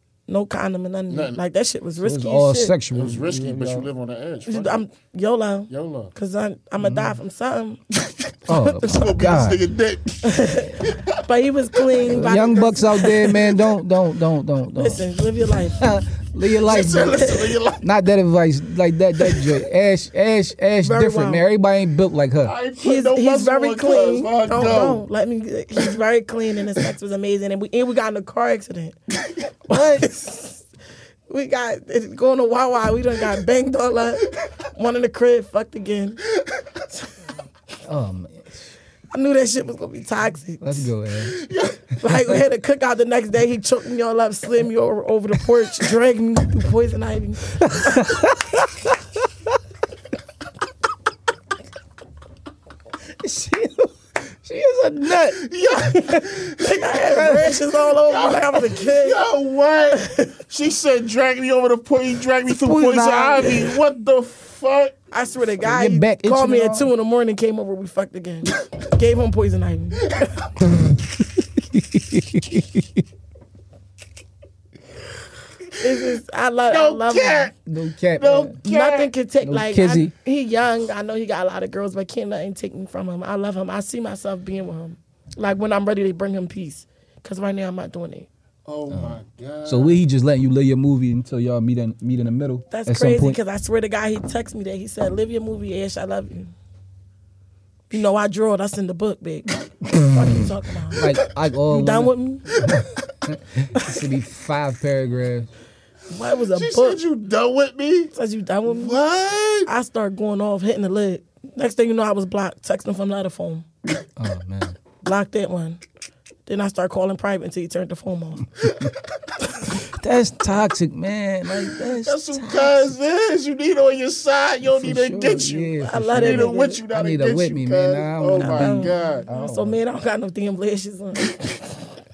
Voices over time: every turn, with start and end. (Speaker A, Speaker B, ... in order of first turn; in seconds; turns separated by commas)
Speaker A: 0.3-2.7, Speaker B: 1.1-1.4, Speaker C: 2.0-3.9, Speaker B: 2.9-4.8, Speaker A: 4.5-7.8, Speaker B: 5.7-6.1, Speaker C: 6.8-7.2, Speaker B: 7.9-11.2, Speaker C: 8.5-9.6, Speaker A: 10.2-13.5, Speaker B: 11.8-12.4, Speaker C: 12.1-15.0, Speaker A: 14.7-15.8, Speaker C: 15.8-22.5, Speaker B: 16.6-17.8, Speaker A: 16.9-17.5, Speaker B: 19.2-19.6, Speaker A: 20.8-21.4, Speaker B: 22.4-25.0, Speaker A: 22.8-28.9, Speaker A: 29.6-30.6, Speaker A: 31.3-36.2, Speaker B: 36.4-36.7, Speaker C: 37.8-38.7, Speaker A: 39.1-40.9, Speaker C: 40.6-41.4, Speaker B: 41.3-41.8, Speaker C: 42.0-42.4, Speaker A: 42.0-48.1, Speaker C: 47.6-48.9, Speaker C: 53.2-56.3, Speaker B: 55.3-64.9, Speaker A: 56.0-59.2, Speaker C: 57.0-57.5, Speaker A: 59.9-60.3, Speaker C: 62.5-63.7, Speaker A: 65.1-70.5, Speaker C: 65.6-66.9, Speaker C: 70.6-73.0, Speaker A: 75.8-77.5, Speaker B: 76.7-77.5, Speaker C: 77.7-78.6, Speaker B: 78.2-79.1, Speaker A: 78.6-88.3, Speaker C: 79.4-80.1, Speaker B: 88.6-90.0, Speaker C: 88.9-93.4, Speaker A: 92.7-96.5, Speaker A: 97.9-101.0, Speaker C: 99.8-105.5, Speaker B: 101.0-101.3, Speaker A: 101.7-102.5, Speaker A: 106.1-107.0, Speaker B: 106.5-108.1, Speaker A: 108.1-109.0, Speaker B: 108.7-109.7, Speaker A: 109.7-113.7, Speaker C: 114.2-114.8, Speaker A: 115.0-115.8, Speaker A: 116.5-118.5, Speaker C: 119.9-122.7, Speaker B: 121.8-129.2, Speaker C: 124.6-129.8, Speaker A: 125.8-126.8, Speaker A: 128.3-131.7